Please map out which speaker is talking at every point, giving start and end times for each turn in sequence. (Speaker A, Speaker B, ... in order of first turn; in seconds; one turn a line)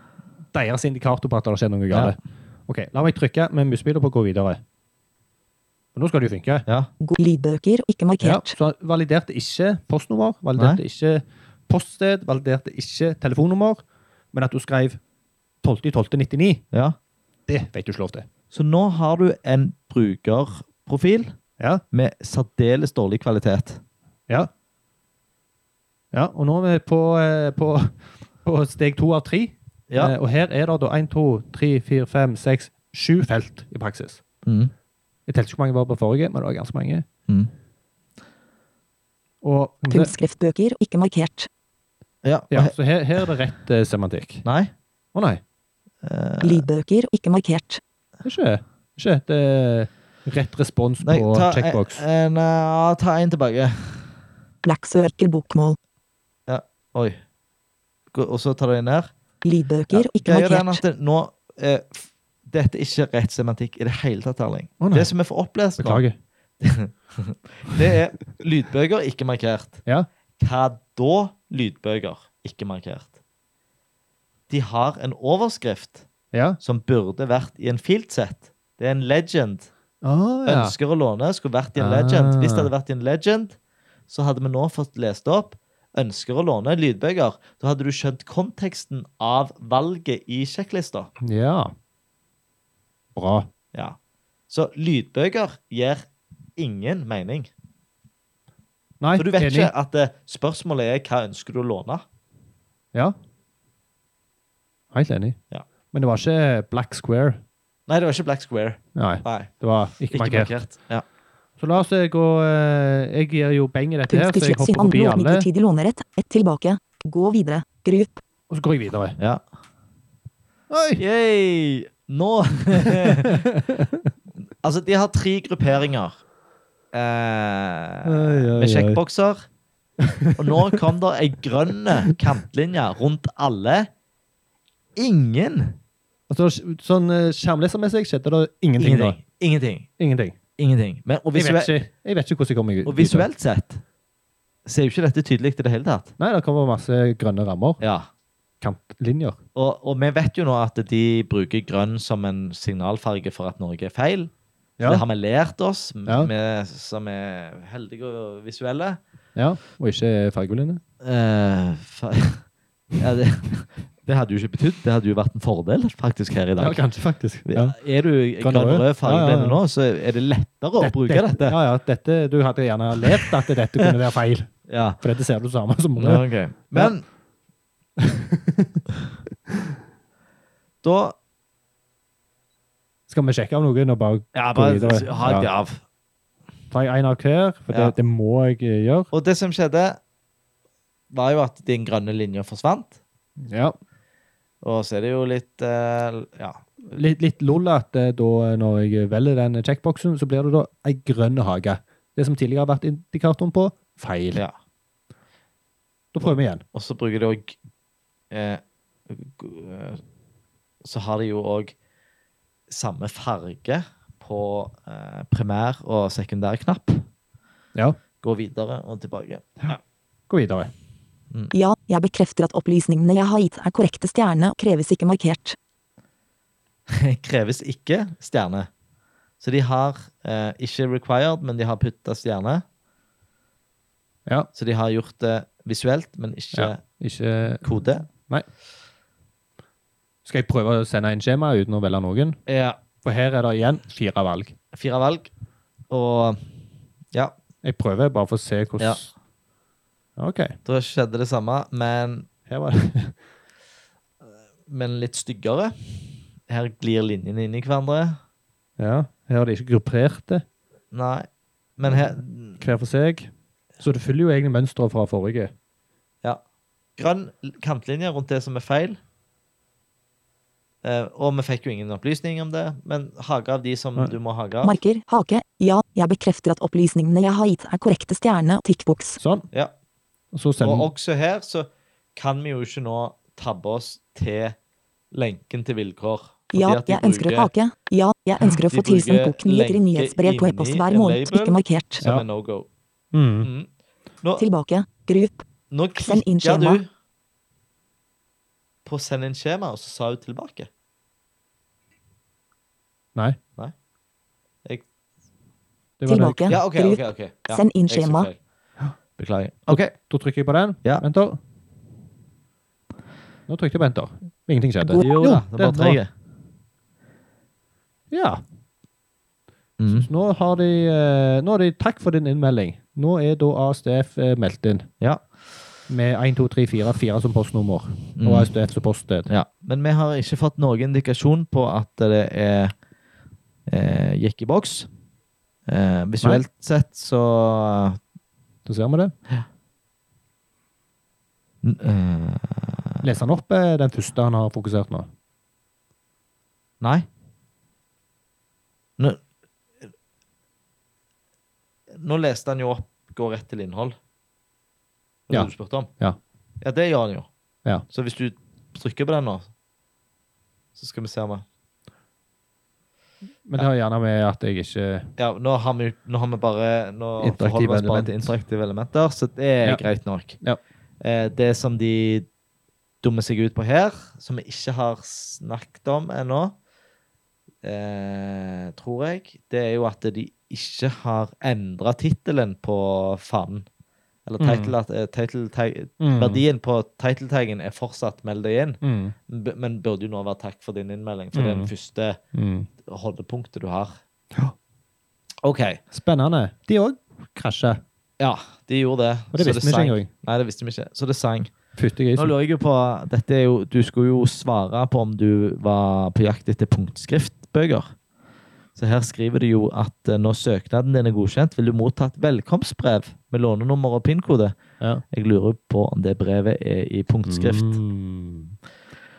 Speaker A: 0.5-4.6
Speaker A: 5.9-6.7
Speaker B: 7.0-8.5
Speaker A: 8.2-15.0
Speaker C: 10.6-10.8
Speaker A: 15.6-16.6
Speaker A: 17.5-18.3
Speaker C: 18.5-21.3
Speaker C: 21.9-23.8
Speaker A: 26.1-34.2
Speaker C: 29.9-30.1
Speaker C: 34.4-34.7
Speaker A: 35.3-37.0
Speaker A: 39.4-40.1
Speaker B: 39.9-41.5
Speaker C: 42.2-42.7
Speaker A: 42.5-44.4
Speaker C: 44.4-44.7
Speaker A: 45.1-45.4
Speaker C: 46.0-46.6
Speaker B: 46.4-47.8
Speaker A: 48.2-52.0
Speaker C: 51.0-54.1
Speaker B: 54.6-55.8
Speaker C: 56.5-57.2
Speaker C: 58.1-59.1
Speaker B: 59.4-60.8
Speaker C: 59.9-66.0
Speaker A: 64.8-65.1
Speaker A: 65.8-66.2
Speaker C: 66.6-69.8
Speaker C: 70.4-73.1
Speaker C: 74.5-76.0
Speaker A: 76.3-76.6
Speaker C: 76.6-79.7
Speaker A: 80.0-80.7
Speaker C: 80.4-83.5
Speaker A: 81.8-82.7
Speaker C: 84.1-91.1
Speaker A: 91.2-91.7
Speaker A: 93.1-93.5
Speaker C: 94.5-97.5
Speaker A: 99.0-99.7
Speaker C: 99.2-102.0
Speaker A: 104.9-105.4
Speaker A: 105.9-107.4
Speaker C: 107.9-109.5
Speaker A: 108.9-110.5
Speaker C: 110.1-111.0
Speaker A: 111.6-115.5
Speaker B: 114.1-118.2
Speaker A: 118.5-119.2
Speaker C: 119.2-119.4
Speaker A: 120.7-121.0
Speaker C: 121.0-123.5
Speaker A: 122.8-124.1
Speaker C: 124.6-126.2
Speaker C: 126.9-129.4
Speaker A: 128.0-129.0
Speaker A: 130.0-130.8
Speaker C: 130.3-133.9
Speaker C: 134.9-135.8
Speaker A: 136.3-139.2
Speaker C: 138.8-139.9
Speaker A: 140.0-140.4
Speaker C: 140.6-141.8
Speaker A: 141.3-143.3
Speaker C: 142.8-143.8
Speaker C: 144.7-146.1
Speaker A: 146.2-147.8
Speaker C: 147.8-148.1
Speaker A: 148.6-149.4
Speaker C: 149.5-154.3
Speaker A: 154.8-155.0
Speaker C: 154.8-159.0
Speaker A: 159.3-160.8
Speaker C: 161.0-162.4
Speaker C: 163.0-166.8
Speaker A: 166.6-167.8
Speaker C: 167.4-171.6
Speaker A: 168.4-169.6
Speaker A: 170.8-176.9
Speaker C: 173.1-173.9
Speaker C: 174.7-175.0
Speaker C: 176.0-177.0
Speaker A: 178.0-178.8
Speaker C: 180.8-181.1
Speaker A: 183.1-185.5
Speaker C: 184.3-185.8
Speaker A: 186.7-189.1
Speaker C: 187.7-187.9
Speaker C: 189.1-190.0
Speaker C: 191.1-193.0
Speaker A: 193.4-193.7
Speaker C: 194.6-196.6
Speaker A: 196.9-204.4
Speaker A: 206.1-206.6
Speaker C: 206.7-207.6
Speaker C: 208.3-210.0
Speaker C: 210.8-211.7
Speaker C: 212.7-217.1
Speaker C: 218.2-219.8
Speaker A: 220.3-220.7
Speaker B: 221.5-225.6
Speaker C: 226.9-228.7
Speaker C: 229.4-232.6
Speaker C: 234.5-236.8
Speaker A: 236.5-238.5
Speaker C: 237.6-238.1
Speaker A: 240.2-242.4
Speaker C: 242.5-242.8
Speaker A: 243.0-244.5
Speaker C: 244.7-245.3
Speaker C: 245.9-246.4
Speaker A: 247.6-249.1
Speaker A: 250.2-250.5
Speaker C: 250.6-252.3
Speaker A: 252.5-253.2
Speaker C: 254.7-258.2
Speaker A: 258.8-260.4
Speaker C: 260.9-262.6
Speaker A: 261.9-265.5
Speaker C: 267.0-269.0
Speaker C: 270.8-274.8
Speaker B: 274.6-279.2
Speaker A: 279.2-279.4
Speaker A: 280.3-280.9
Speaker C: 280.6-284.5
Speaker C: 285.1-287.5
Speaker B: 286.5-292.0
Speaker C: 288.5-292.7
Speaker A: 293.1-293.5
Speaker C: 293.4-293.7
Speaker B: 294.4-295.4
Speaker C: 295.7-296.9
Speaker B: 295.9-296.8
Speaker C: 298.9-300.7
Speaker A: 306.0-306.4
Speaker B: 306.1-308.3
Speaker C: 306.5-308.4
Speaker C: 309.2-309.9
Speaker A: 309.7-311.4
Speaker A: 313.5-316.0
Speaker C: 314.9-316.1
Speaker A: 318.1-318.4
Speaker C: 319.8-320.1
Speaker A: 319.9-324.9
Speaker A: 325.9-329.3
Speaker C: 328.2-328.5
Speaker C: 329.3-332.7
Speaker C: 333.7-334.9
Speaker C: 335.7-338.0
Speaker A: 338.6-339.1
Speaker C: 341.6-343.0
Speaker A: 343.0-345.1
Speaker C: 346.8-347.1
Speaker C: 352.0-354.0
Speaker C: 355.3-355.9
Speaker A: 355.3-356.2
Speaker C: 356.6-357.3
Speaker C: 357.9-359.5
Speaker C: 360.8-361.4
Speaker A: 363.4-365.1
Speaker C: 365.2-370.4
Speaker A: 367.2-368.3
Speaker C: 371.0-372.3
Speaker C: 373.0-376.5
Speaker C: 377.6-383.7
Speaker C: 384.2-392.2
Speaker A: 384.4-384.7
Speaker A: 386.0-386.4
Speaker A: 388.8-389.1
Speaker A: 391.3-391.7
Speaker A: 392.3-392.7
Speaker C: 392.8-394.0
Speaker C: 395.4-395.8
Speaker A: 395.9-397.8
Speaker C: 398.2-401.5
Speaker A: 399.3-400.1
Speaker A: 401.8-402.3
Speaker C: 402.1-407.9
Speaker C: 408.7-414.5
Speaker C: 415.1-417.8
Speaker A: 417.2-418.5